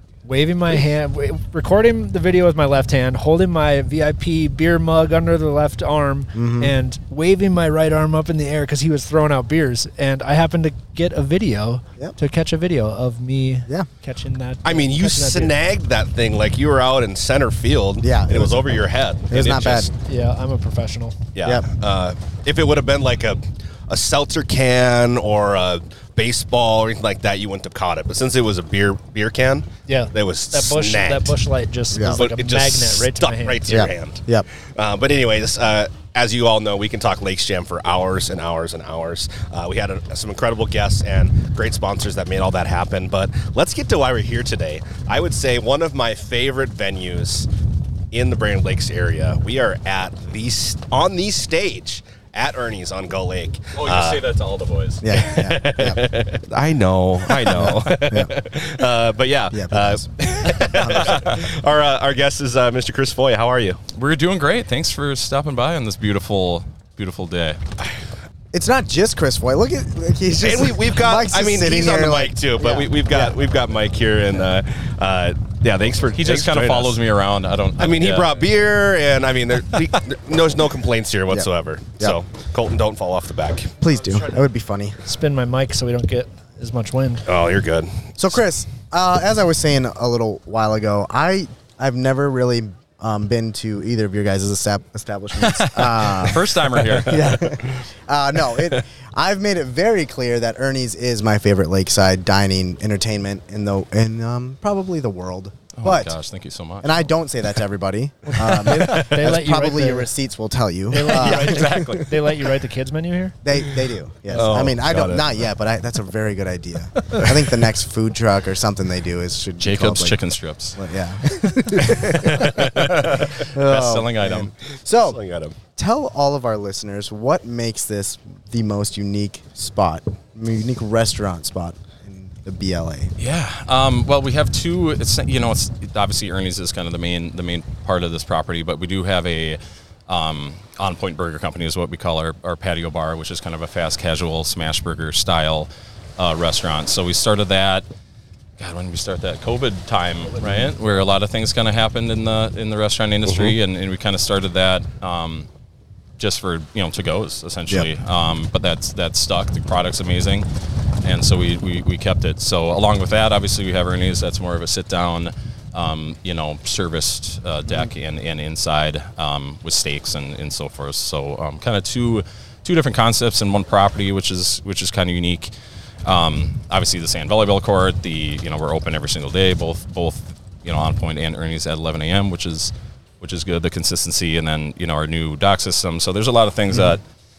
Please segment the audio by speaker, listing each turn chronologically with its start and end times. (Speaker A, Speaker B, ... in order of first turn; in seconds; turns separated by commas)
Speaker A: 0.2-15.5, Speaker B: 6.3-6.7, Speaker C: 14.6-19.9, Speaker B: 18.0-19.9, Speaker A: 20.0-21.1, Speaker C: 21.3-31.4, Speaker A: 29.9-33.8, Speaker B: 31.9-32.2, Speaker C: 32.0-47.5, Speaker B: 33.7-34.5, Speaker C: 48.1-54.2, Speaker D: 53.8-55.0, Speaker B: 55.0-56.0, Speaker C: 55.1-63.8, Speaker B: 57.5-58.3, Speaker B: 59.5-61.4, Speaker D: 63.9-67.6, Speaker B: 68.5-73.3, Speaker C: 70.4-77.0, Speaker D: 76.2-78.4, Speaker C: 77.8-83.7, Speaker B: 83.8-85.0, Speaker A: 85.0-87.2, Speaker C: 87.2-88.2, Speaker B: 88.2-106.2, Speaker D: 95.4-97.6, Speaker D: 105.7-107.1, Speaker B: 106.8-112.0, Speaker A: 108.2-110.1, Speaker A: 110.9-113.4, Speaker B: 113.4-120.2, Speaker C: 114.3-115.4, Speaker D: 119.6-120.8, Speaker B: 120.8-125.2, Speaker D: 121.8-124.5, Speaker C: 124.9-125.5, Speaker B: 125.8-133.1, Speaker D: 133.2-147.8, Speaker D: 148.6-155.5, Speaker D: 156.2-160.5, Speaker D: 161.0-175.5, Speaker D: 176.0-187.0